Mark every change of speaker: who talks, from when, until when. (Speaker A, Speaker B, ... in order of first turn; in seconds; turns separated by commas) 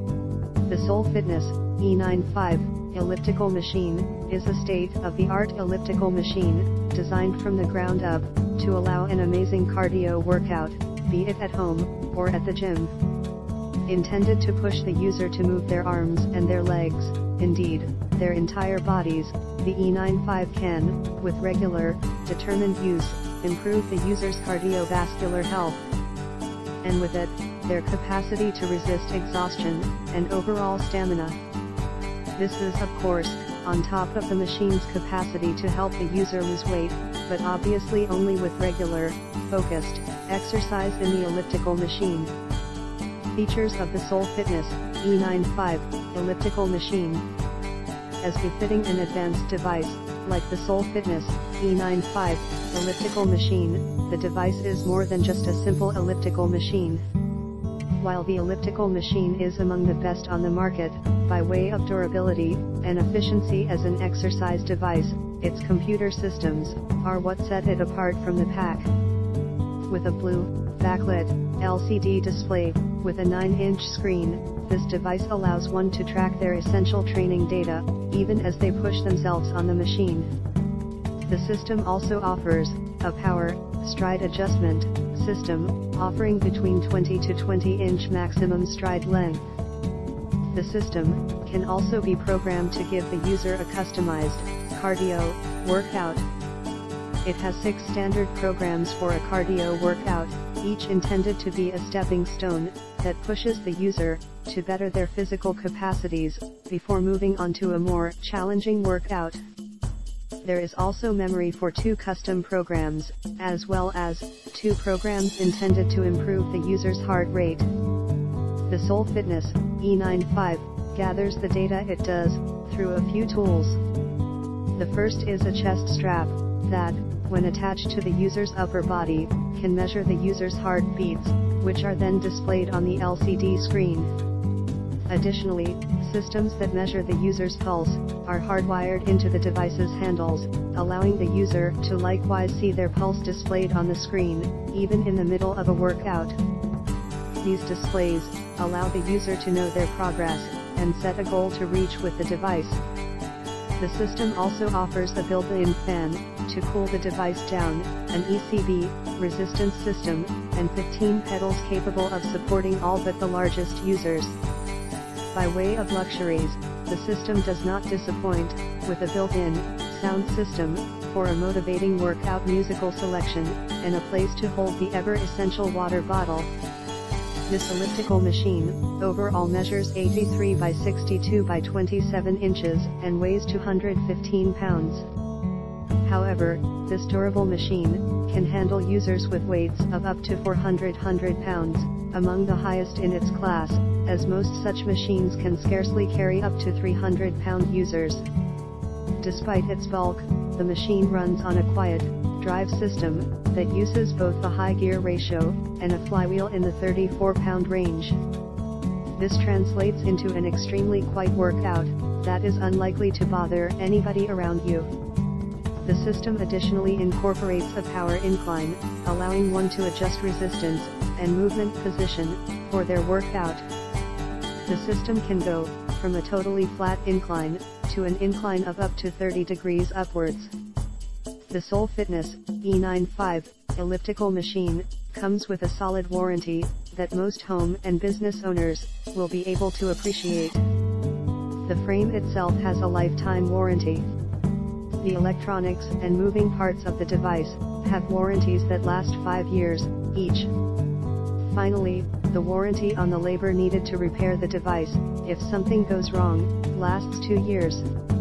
Speaker A: 0.7-12.9, Speaker A: 13.9-25.8, Speaker A: 26.8-31.4, Speaker A: 32.4-42.3, Speaker A: 43.3-47.2, Speaker A: 48.2-57.0, Speaker A: 58.0-68.9, Speaker A: 69.9-80.3, Speaker A: 81.3-89.4, Speaker A: 90.5-96.3, Speaker A: 97.2-109.4, Speaker A: 110.4-117.7, Speaker A: 118.7-123.8, Speaker A: 124.8-134.1, Speaker A: 135.1-146.4, Speaker A: 147.4-152.8, Speaker A: 153.8-164.4, Speaker A: 165.3-176.5, Speaker A: 177.5-185.1, Speaker A: 186.0-198.2, Speaker A: 199.2-208.2, Speaker A: 209.2-214.9, Speaker A: 215.8-223.6, Speaker A: 224.7-230.5, Speaker A: 231.5-240.6, Speaker A: 241.7-244.1, Speaker A: 245.0-250.5, Speaker A: 251.5-257.9